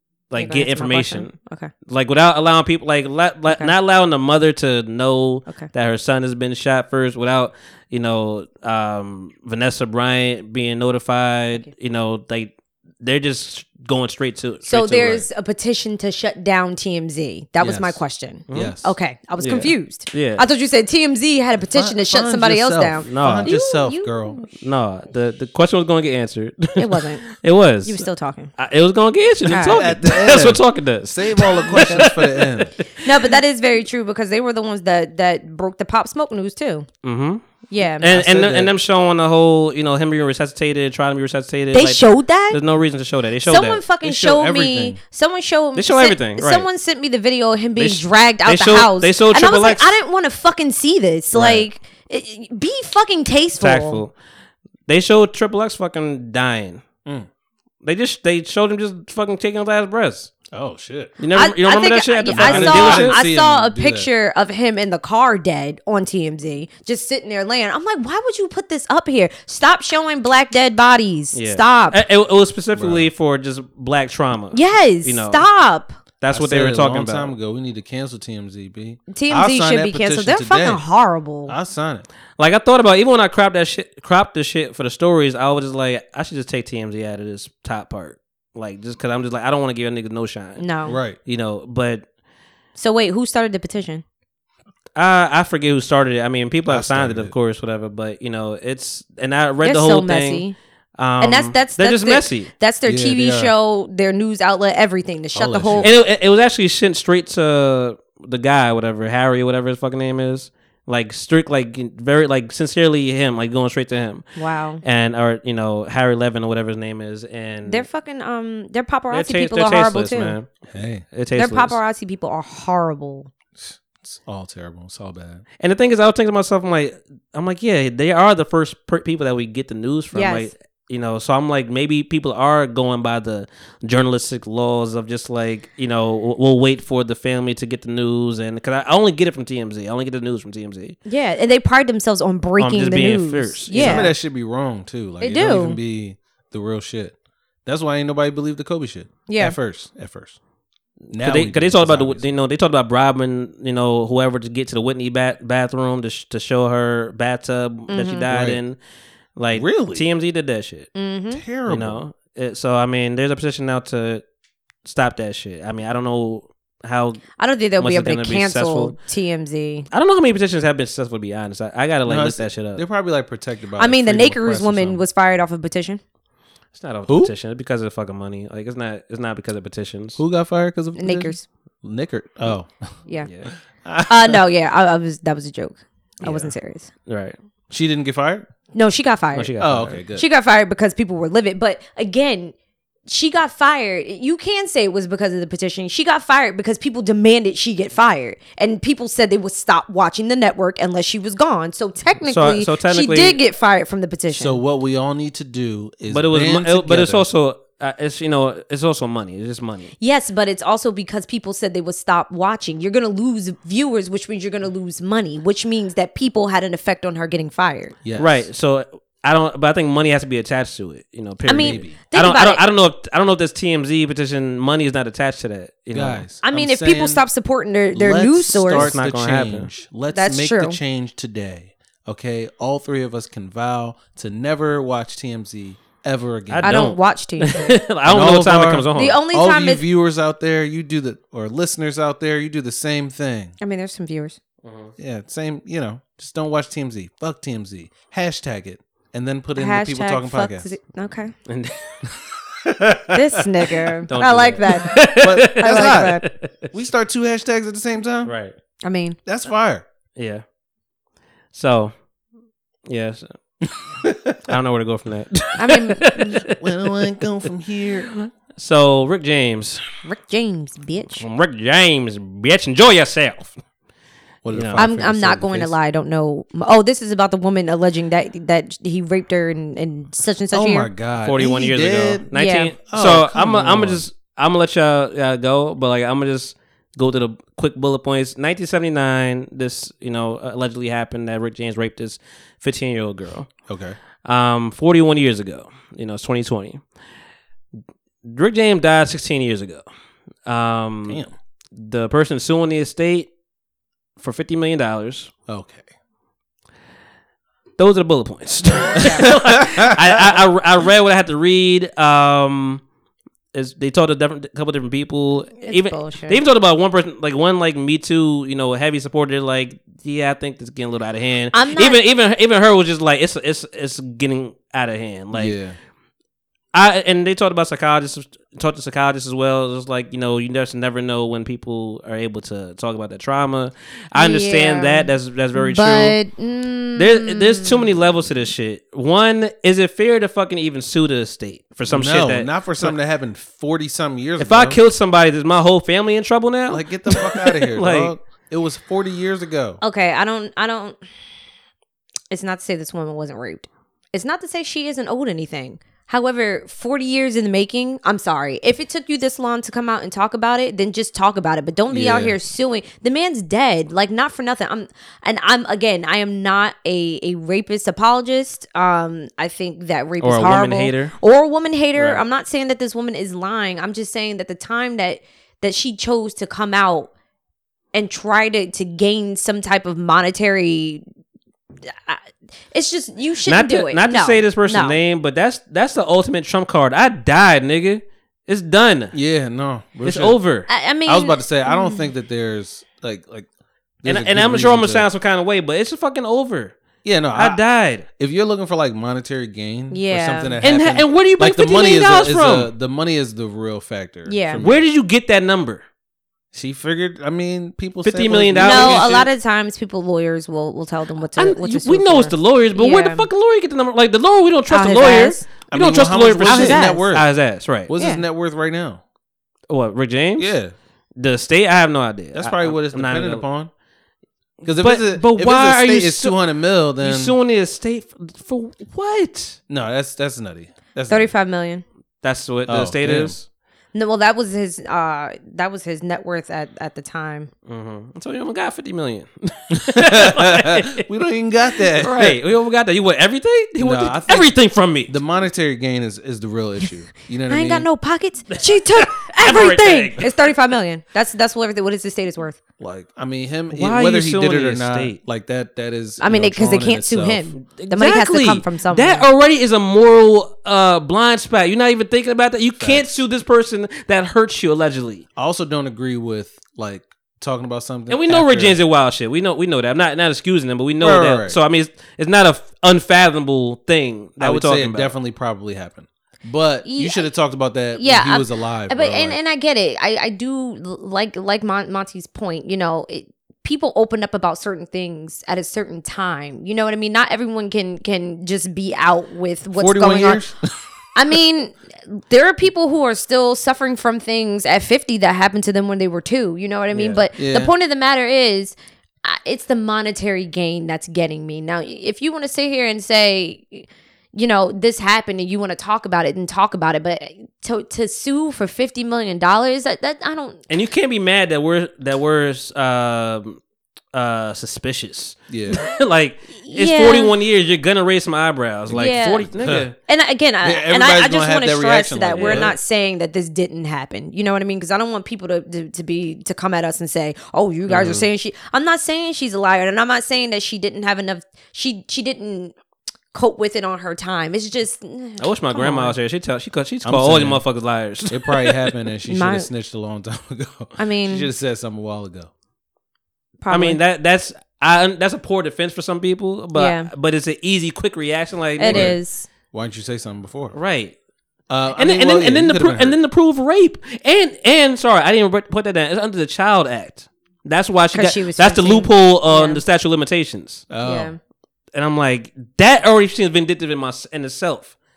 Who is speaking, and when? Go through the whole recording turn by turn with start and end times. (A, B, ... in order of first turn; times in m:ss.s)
0:00.3-0:01.3 A
0:00.4-0:01.7 B
0:01.8-0:15.3 A
0:14.6-0:24.5 B
0:17.6-0:19.0 C
0:18.5-0:18.8 A
0:19.4-0:20.4 A
0:21.7-0:24.4 C
0:23.1-0:23.6 A
0:24.5-0:32.5 A
0:26.8-0:27.3 B
0:27.8-0:28.5 B
0:29.5-0:29.8 B
0:29.7-0:32.7 C
0:31.6-0:32.0 B
0:33.0-0:36.9 B
0:37.0-0:37.4 A
0:37.7-0:38.2 B
0:38.0-0:43.8 A
0:38.1-0:38.7 C
0:41.7-0:42.6 B
0:43.4-0:54.0 B
0:44.0-0:45.0 C
0:45.7-0:46.6 A
0:47.8-0:49.9 A
0:51.3-0:51.6 A
0:53.6-0:54.1 A
0:54.9-0:56.8 A
0:57.8-1:00.3 A
1:00.5-1:01.2 C
1:01.2-1:03.2 A
1:01.3-1:12.0 B
1:02.3-1:04.1 C
1:11.3-1:15.4 A
1:12.7-1:13.1 C
1:14.5-1:16.0 B
1:16.2-1:17.3 A
1:16.3-1:20.8 C
1:19.1-1:21.5 B
1:21.5-1:22.1 C
1:22.4-1:32.0 A
1:30.6-1:31.0 B
1:30.8-1:31.2 C
1:32.8-1:34.0 B
1:35.0-1:42.5 A
1:36.7-1:37.3 C
1:39.6-1:40.6 B
1:41.2-1:45.9 B
1:42.8-1:43.5 C
1:45.3-1:45.9 C
1:45.8-1:54.2 A
1:54.4-1:54.8 B
1:54.8-1:57.8 A
1:57.6-2:00.4 B
1:59.1-2:00.5 A
2:00.6-2:01.0 C
2:01.1-2:01.8 A
2:01.4-2:03.3 B
2:03.6-2:05.4 C
2:05.6-2:21.0 A
2:10.1-2:10.5 B
2:21.0-2:24.1 B
2:22.6-2:24.1 A
2:23.7-2:30.4 C
2:25.2-2:25.8 B
2:29.3-2:29.6 B
2:31.1-2:38.8 A
2:31.1-2:32.3 C
2:37.9-2:38.2 B
2:38.3-2:38.6 C
2:39.4-2:40.9 A
2:39.5-2:40.1 C
2:40.9-2:41.4 B
2:41.3-2:42.0 C
2:41.7-2:44.2 A
2:44.8-2:49.0 A
2:47.4-2:49.9 B
2:49.9-2:52.8 A
2:52.0-2:55.0 C
2:53.8-2:56.0 B
2:56.7-3:00.2 A
2:57.1-2:57.3 C
3:00.2-3:02.7 C
3:01.0-3:01.4 B
3:03.2-3:03.5 A
3:03.8-3:04.4 C
3:04.1-3:06.9 B
3:06.2-3:06.5 C
3:07.1-3:07.4 A
3:07.7-3:08.5 C
3:08.7-3:09.6 B
3:09.3-3:10.0 A
3:09.6-3:10.2 C
3:10.1-3:12.5 B
3:13.0-3:24.6 B
3:22.2-3:23.4 A
3:24.3-3:27.3 C
3:26.1-3:29.9 A
3:30.0-3:38.0 B
3:38.0-3:38.5 C
3:38.2-3:46.2 A
3:41.4-3:42.6 B
3:41.5-3:41.9 C
3:45.9-3:47.2 C
3:46.4-3:48.9 B
3:47.9-3:56.8 C
3:48.7-3:49.7 A
3:50.1-3:50.8 B
3:56.5-3:59.2 A
3:56.6-3:57.8 B
3:58.1-4:03.5 C
3:59.0-3:59.8 B
4:03.6-4:04.4 B
4:04.6-4:04.9 A
4:05.0-4:10.7 C
4:09.6-4:11.3 B
4:11.5-4:16.7 A
4:13.1-4:16.2 B
4:15.2-4:18.3 C
4:18.2-4:18.5 A
4:18.8-4:19.2 B
4:19.2-4:19.8 C
4:20.2-4:20.4 A
4:21.5-4:21.9 A
4:22.9-4:23.3 A
4:24.4-4:26.9 A
4:25.6-4:26.3 B
4:26.4-4:28.1 C
4:28.1-4:29.8 A
4:30.0-4:31.2 B
4:31.1-4:33.6 A
4:34.4-4:35.7 C
4:34.5-4:34.8 A
4:34.8-4:40.9 B
4:40.5-4:42.3 C
4:41.2-4:53.5 A
4:42.3-4:42.7 B
4:42.9-4:44.0 C
4:53.7-4:54.0 C
4:54.2-4:56.8 A
4:58.2-4:59.8 A
5:00.4-5:01.2 A
5:01.8-5:03.3 A
5:04.2-5:05.3 A
5:05.5-5:05.9 C
5:07.8-5:12.8 A
5:09.0-5:09.3 B
5:09.1-5:10.3 C
5:13.5-5:25.6 A
5:15.6-5:16.4 B
5:21.5-5:22.0 B
5:25.3-5:25.8 C
5:26.7-5:36.2 A
5:34.1-5:37.9 B
5:37.0-5:42.9 A
5:41.9-5:44.8 C
5:44.4-5:48.1 A
5:46.7-5:49.8 C
5:49.8-5:51.0 B
5:52.3-6:17.1 B
6:01.9-6:02.3 C
6:10.2-6:11.1 A
6:12.0-6:12.2 A
6:17.9-6:21.0 B
6:21.9-6:25.0 B
6:23.4-6:29.1 A
6:29.1-6:30.4 C
6:30.0-6:30.7 A
6:30.7-6:32.1 B
6:31.0-6:33.5 C
6:34.0-6:35.1 C
6:34.0-6:36.8 A
6:37.0-6:37.6 C
6:37.3-6:38.0 A
6:38.2-6:44.8 C
6:39.9-6:40.6 B
6:40.6-6:42.7 A
6:44.3-6:44.6 B
6:44.6-6:45.8 A
6:46.5-6:49.3 C
6:48.0-6:49.2 A
6:48.6-6:53.3 B
6:51.4-6:57.9 A
6:54.7-6:55.5 B
6:55.7-6:57.3 C
6:56.4-6:57.0 B
6:57.8-6:59.0 C
6:58.0-6:58.2 B
6:59.7-7:00.5 A
7:00.4-7:00.7 C
7:01.2-7:03.4 A
7:02.3-7:03.7 C
7:04.6-7:07.4 C
7:04.7-7:06.4 A
7:07.0-7:09.6 A
7:09.7-7:11.3 C
7:11.1-7:11.8 B
7:12.2-7:13.4 A
7:12.7-7:13.4 C
7:13.9-7:17.5 B
7:17.6-7:21.0 A
7:19.7-7:22.4 C
7:21.9-7:25.2 A
7:23.8-7:24.5 C
7:25.0-7:27.9 C
7:27.5-7:32.6 B
7:28.5-7:30.3 A
7:32.8-7:37.5 C
7:33.7-7:35.2 A
7:36.2-7:39.2 B
7:37.6-7:45.2 A
7:42.8-7:43.1 C
7:45.4-7:48.8 C
7:48.1-7:55.1 A
7:51.0-7:51.6 C
7:54.4-7:59.4 C
7:56.8-7:57.3 B
7:57.9-8:10.4 B
8:09.7-8:10.7 C
8:11.1-8:30.6 B
8:17.0-8:17.7 C
8:30.7-8:33.6 A
8:34.1-8:39.9 A
8:35.5-8:35.8 C
8:36.6-8:37.3 B
8:38.9-8:39.5 B
8:39.6-8:39.9 C
8:40.1-8:52.7 B
8:40.6-8:42.7 C
8:42.3-8:42.7 A
8:47.9-8:48.3 A
8:53.3-8:56.1 B
8:55.4-8:58.9 A
8:57.0-8:57.6 C
8:58.3-9:02.5 C
8:59.3-8:59.7 B
9:01.0-9:01.5 B
9:03.6-9:04.0 B
9:03.7-9:09.2 A
9:06.7-9:07.1 B
9:08.8-9:09.5 B
9:08.9-9:09.2 C
9:09.7-9:10.8 C
9:10.7-9:11.1 A
9:11.7-9:13.2 C
9:11.9-9:20.9 A
9:18.1-9:19.8 B
9:20.9-9:21.3 C
9:21.0-9:21.4 B
9:21.9-9:24.9 A